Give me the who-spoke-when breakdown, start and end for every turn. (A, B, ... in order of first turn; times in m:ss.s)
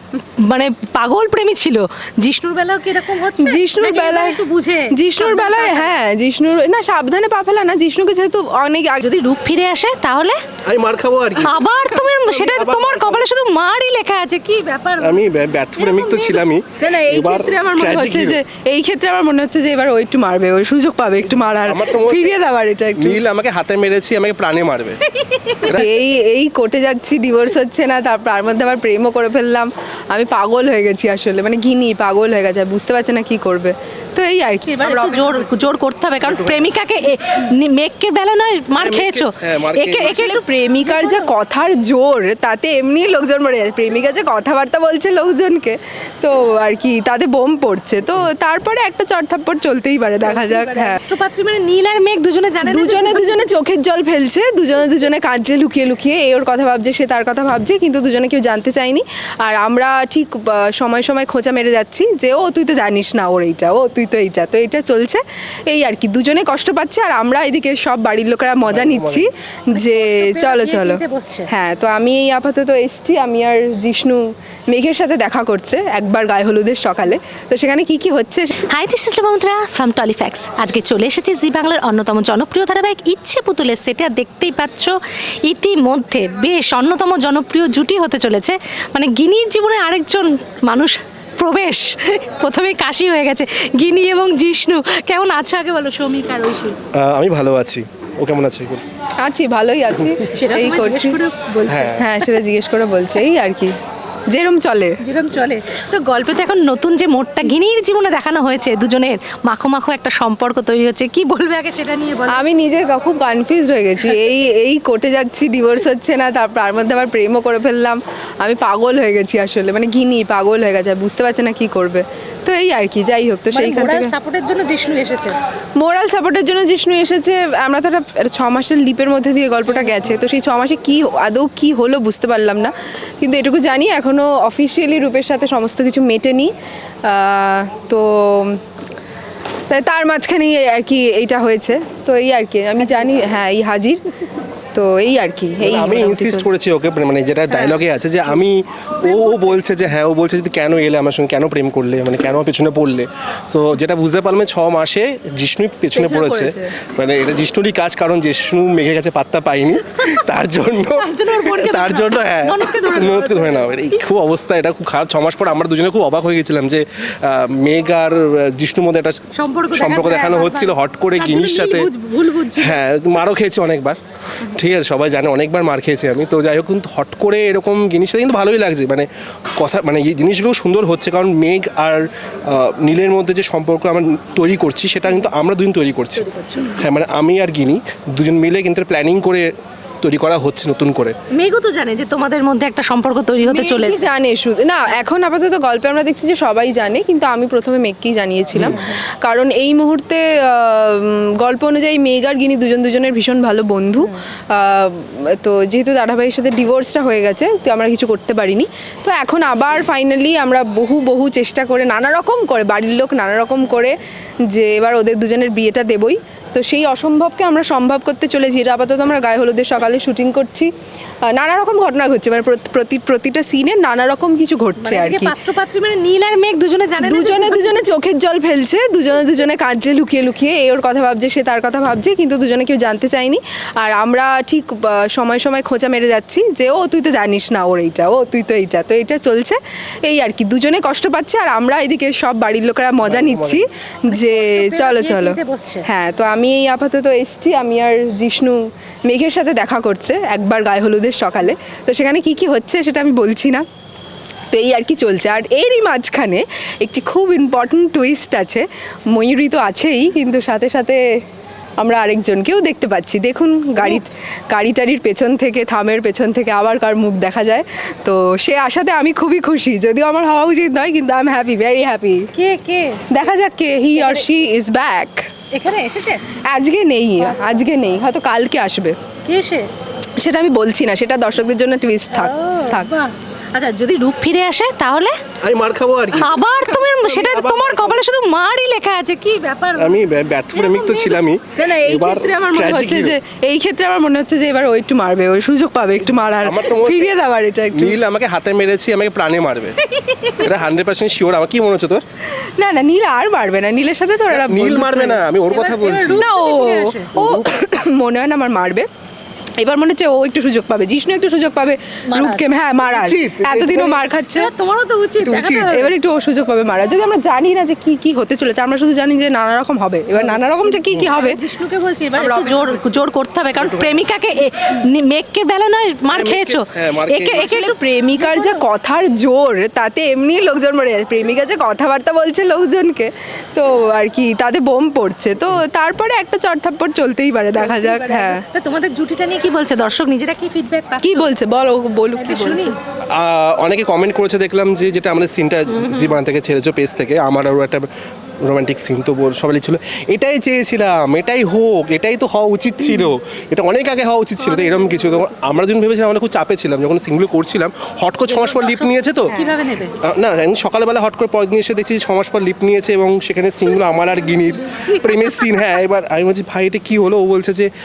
0:00.4-0:05.9 A
0:03.4-0:09.1 B
0:09.0-0:10.4 A
0:10.6-0:13.2 C
0:11.4-0:16.5 A
0:15.0-0:18.4 C
0:16.8-0:23.2 B
0:21.6-0:22.4 C
0:23.0-0:25.0 C
0:25.1-0:25.8 A
0:25.6-0:25.9 C
0:25.7-0:35.7 B
0:34.6-0:41.3 A
0:36.2-0:36.6 C
0:38.8-0:40.3 C
0:40.1-0:51.0 B
0:50.2-0:53.4 A
0:52.6-1:18.6 B
1:08.7-1:09.3 C
1:09.7-1:11.5 A
1:18.6-1:36.8 A
1:36.9-1:38.8 C
1:39.2-1:41.2 B
1:40.2-1:42.3 A
1:41.7-1:42.0 C
1:42.0-1:43.7 B
1:44.3-1:45.0 B
1:45.0-1:52.4 A
1:52.3-2:04.1 B
2:03.5-2:05.4 A
2:05.8-2:16.5 B
2:09.7-2:10.1 A
2:17.0-2:18.6 B
2:19.7-2:24.0 B
2:24.7-2:26.5 B
2:25.6-2:51.9 C
2:36.0-2:36.7 B
2:40.9-2:44.0 A
2:49.3-2:52.8 A
2:52.6-3:09.5 C
3:06.2-3:06.8 A
3:10.0-3:11.2 C
3:11.3-3:14.0 A
3:13.4-3:34.0 B
3:18.6-3:18.8 C
3:34.5-3:40.7 B
3:41.3-3:45.4 B
3:44.8-3:47.8 A
3:47.0-4:13.6 B
4:03.0-4:03.6 C
4:04.1-4:05.9 A
4:14.5-4:21.0 B
4:21.8-4:32.3 B
4:32.3-4:33.1 A
4:33.1-4:35.3 B
4:34.0-4:34.2 A
4:35.5-4:36.2 A
4:36.5-4:39.0 B
4:37.2-4:37.6 A
4:39.3-4:39.7 A
4:40.2-4:42.9 B
4:42.1-4:45.2 A
4:45.4-4:48.0 C
4:46.2-4:51.2 A
4:49.8-4:53.2 C
4:51.6-4:58.0 B
4:56.4-4:57.1 C
4:57.8-4:59.8 C
4:59.8-5:00.5 A
5:00.3-5:02.0 C
5:02.6-5:05.2 B
5:04.3-5:06.3 C
5:05.5-5:07.2 A
5:06.1-5:08.9 B
5:07.2-5:07.4 C
5:09.6-5:14.5 B
5:12.1-5:12.5 A
5:12.9-5:14.0 C
5:14.3-5:15.9 A
5:15.2-5:15.7 C
5:15.3-5:21.4 B
5:20.1-5:28.6 A
5:22.1-5:22.9 B
5:26.1-5:27.5 C
5:27.3-5:38.4 B
5:37.6-5:41.3 A
5:41.0-5:42.8 B
5:42.2-5:42.8 A
5:43.1-5:47.9 C
5:45.8-5:46.2 A
5:48.4-5:59.3 C
5:54.5-5:55.1 A
5:58.3-5:59.9 A
5:59.3-5:59.6 B
6:00.0-6:07.7 C
6:03.9-6:05.7 A